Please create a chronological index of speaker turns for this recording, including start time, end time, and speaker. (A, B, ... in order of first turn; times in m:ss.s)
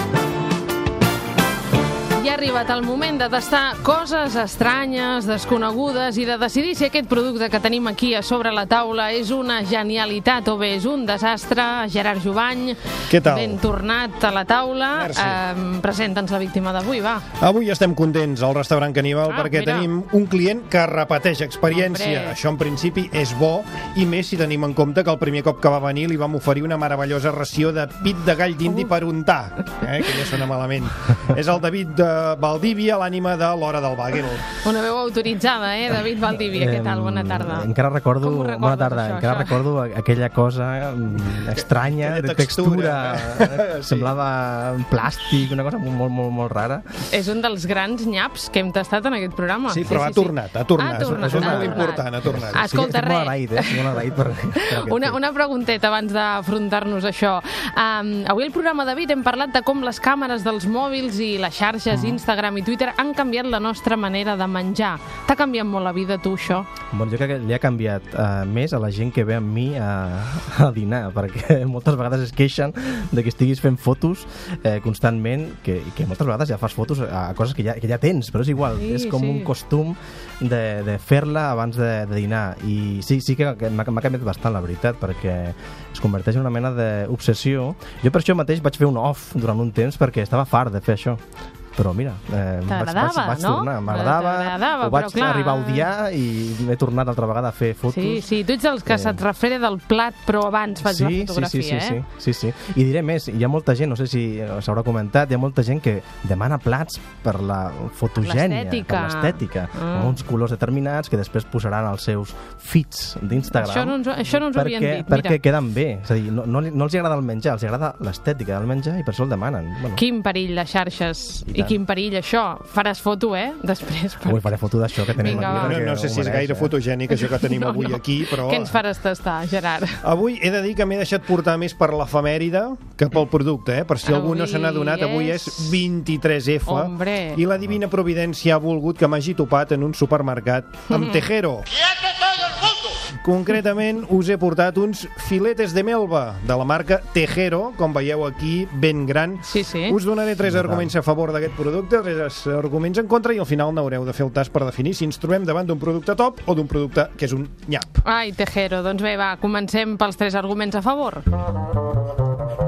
0:02.2-0:17.3 A
0:13.1-0:13.6 B
0:14.9-0:15.4 B
0:17.4-0:34.5 B
0:19.3-0:19.9 A
0:21.7-0:22.3 A
0:34.6-0:37.7 A
0:36.5-0:46.8 C
0:38.2-0:39.6 A
0:42.0-0:44.1 B
0:47.1-0:54.0 A
0:49.7-0:52.6 B
0:51.0-0:55.2 C
0:54.5-1:06.7 A
1:01.9-1:02.2 C
1:06.9-1:31.2 C
1:18.8-1:19.5 A
1:31.8-1:38.3 C
1:32.7-1:35.9 A
1:37.9-1:42.0 A
1:38.9-1:39.2 C
1:40.8-2:00.0 C
1:48.2-1:50.2 A
1:53.5-1:55.4 A
1:59.9-2:04.6 A
2:01.5-2:01.8 C
2:04.2-2:06.7 C
2:05.2-2:05.8 A
2:05.3-2:08.8 B
2:07.1-2:10.0 A
2:10.0-2:21.7 B
2:14.0-2:15.7 A
2:16.7-2:17.4 A
2:23.2-2:38.0 B
2:29.5-2:30.0 A
2:30.4-2:30.9 C
2:38.0-2:41.2 A